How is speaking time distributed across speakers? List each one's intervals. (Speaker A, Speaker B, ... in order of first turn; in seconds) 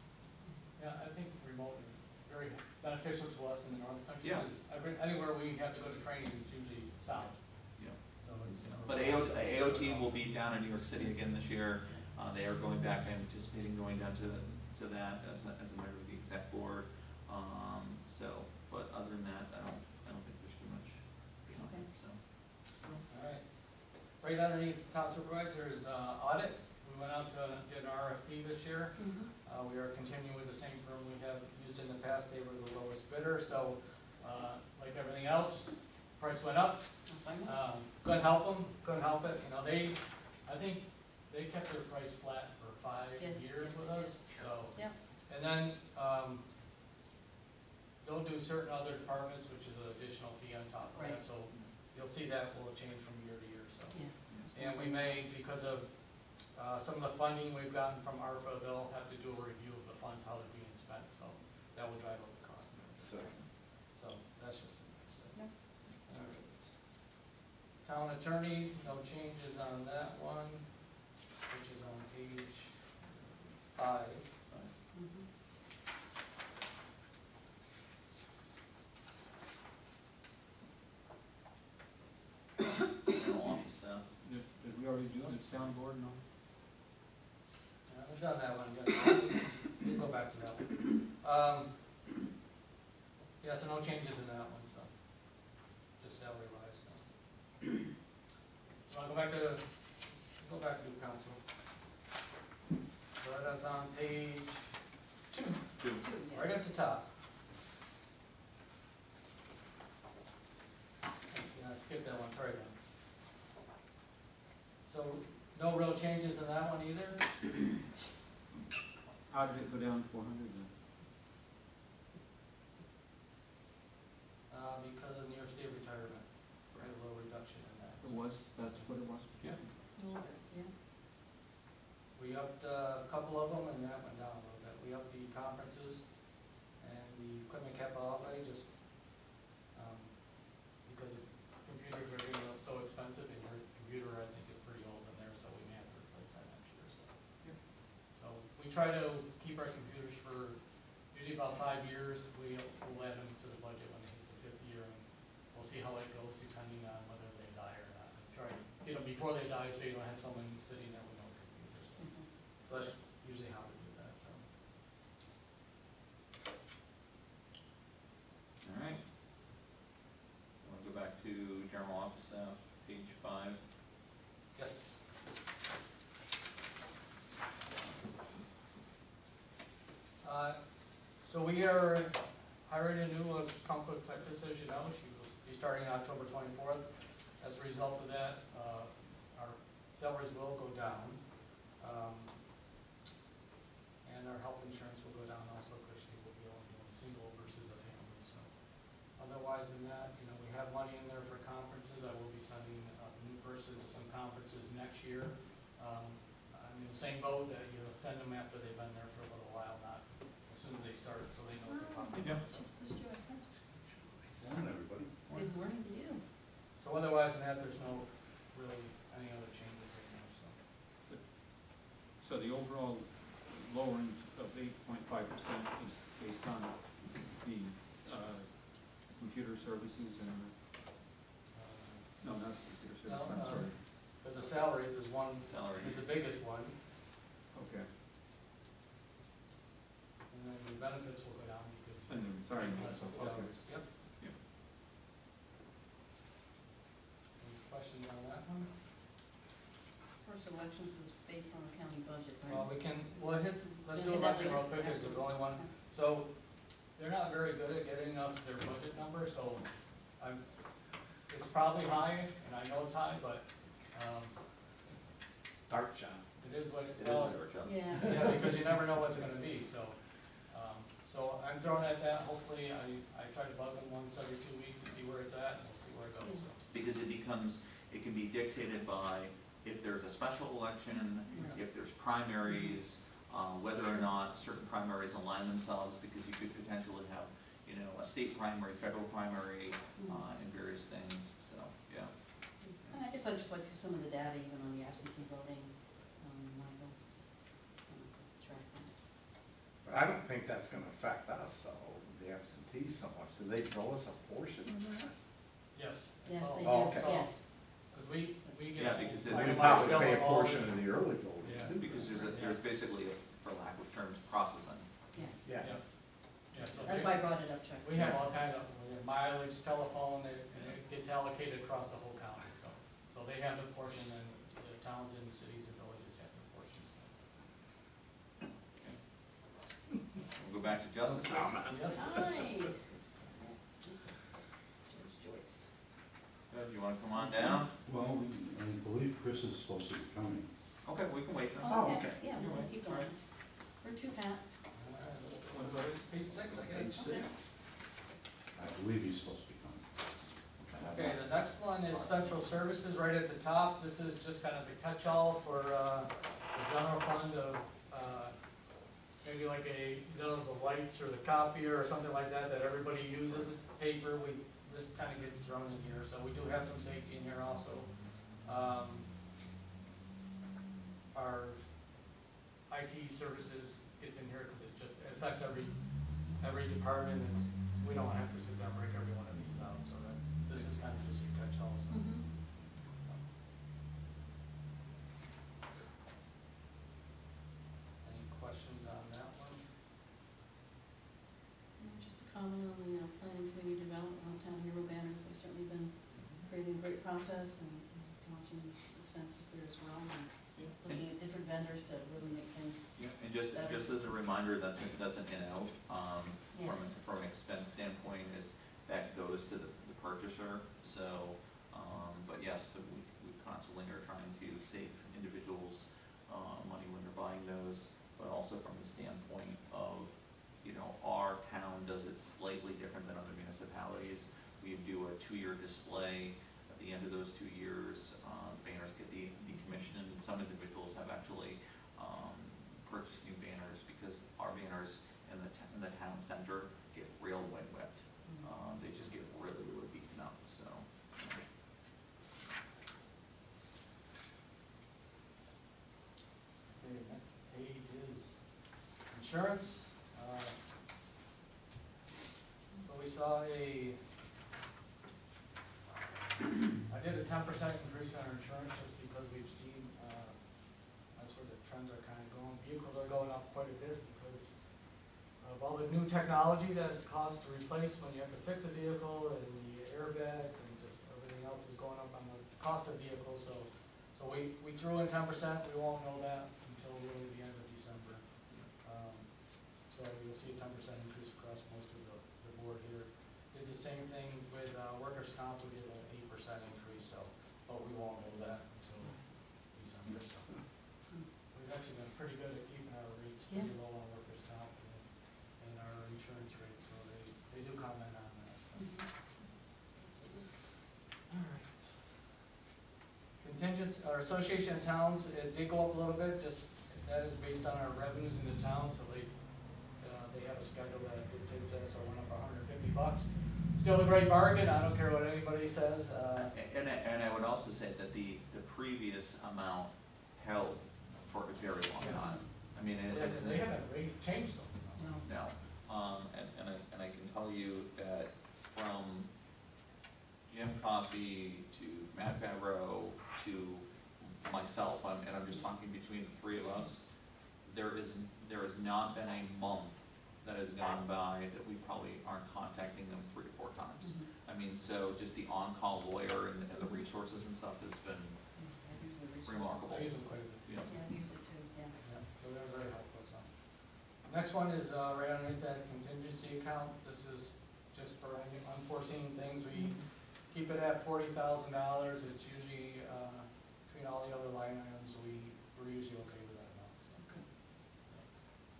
Speaker A: 0.8-10.5, 23.1-46.4, 48.0-63.3, 63.9-66.7, 67.8-70.9, 71.4-74.2, 85.1-85.7, 87.9-91.7, 93.4-97.0, 98.9-99.7, 100.3-101.4, 103.2-104.7, 105.3-107.0, 111.3-112.7, 114.9-117.2, 124.5-129.0, 132.1-147.3, 148.2-164.4, 174.5-175.0, 180.2-192.4, 194.0-212.7, 216.8-220.5, 231.5-236.8, 240.3-243.8, 247.4-248.7, 252.5-259.6, 260.2-260.4, 261.3-264.4, 266.4-276.6, 305.7-312.6, 315.6-327.2, 331.6-332.2, 344.7-347.1, 350.9-358.4, 359.2-369.1, 371.1-371.7, 372.7-382.4, 388.0-389.6, 446.8-448.4, 449.1-450.5, 452.8-454.0, 456.8-464.6, 465.4-490.9, 491.5-498.9, 500.2-500.4, 501.3-502.1, 503.4-509.3, 509.9-516.5, 521.9-525.0, 549.9-550.7, 552.0-568.3
Speaker B: 4.2-4.5, 7.8-23.0, 82.6-84.0, 168.6-169.0, 170.6-173.6, 235.4-236.0, 267.0-268.0, 276.7-292.1, 308.8-310.3, 311.7-314.9, 330.4-331.8, 336.5-337.7, 340.8-343.1, 396.1-396.5, 400.5-401.0, 402.9-441.4, 516.4-523.7, 525.2-529.3, 530.5-548.4, 549.4-550.9
Speaker C: 8.4-8.7, 21.5-21.9, 28.9-29.3, 37.1-37.5, 43.2-45.0, 50.9-51.2, 53.9-55.1, 74.9-75.3, 106.0-106.5, 129.9-130.7, 162.0-162.3, 211.7-213.4, 215.3-216.2, 250.2-255.7, 267.6-268.2, 281.3-281.6, 282.4-282.8, 283.8-284.1, 290.0-290.2, 292.6-298.9, 306.2-307.4, 316.7-317.9, 331.9-334.2, 334.8-335.7, 337.1-337.6, 341.6-344.4, 346.9-347.3, 381.9-382.2, 391.8-403.9, 406.5-406.9, 438.2-438.5, 498.7-499.1, 522.1-522.4, 525.0-525.2, 544.0-544.3, 546.8-547.0, 548.5-550.1, 550.8-552.0, 559.7-560.0, 567.2-567.4
Speaker D: 63.0-63.3, 213.6-215.5, 265.7-266.2, 299.8-305.1, 306.6-307.3, 309.3-312.1, 315.4-315.8, 331.1-331.9, 341.7-342.3, 346.5-347.4
Speaker E: 84.2-86.2, 119.3-120.7, 128.0-129.8, 221.8-230.5, 232.2-233.8, 237.5-237.9, 242.1-244.0, 345.4-346.5
Speaker F: 337.8-340.5, 348.5-349.8, 350.7-352.4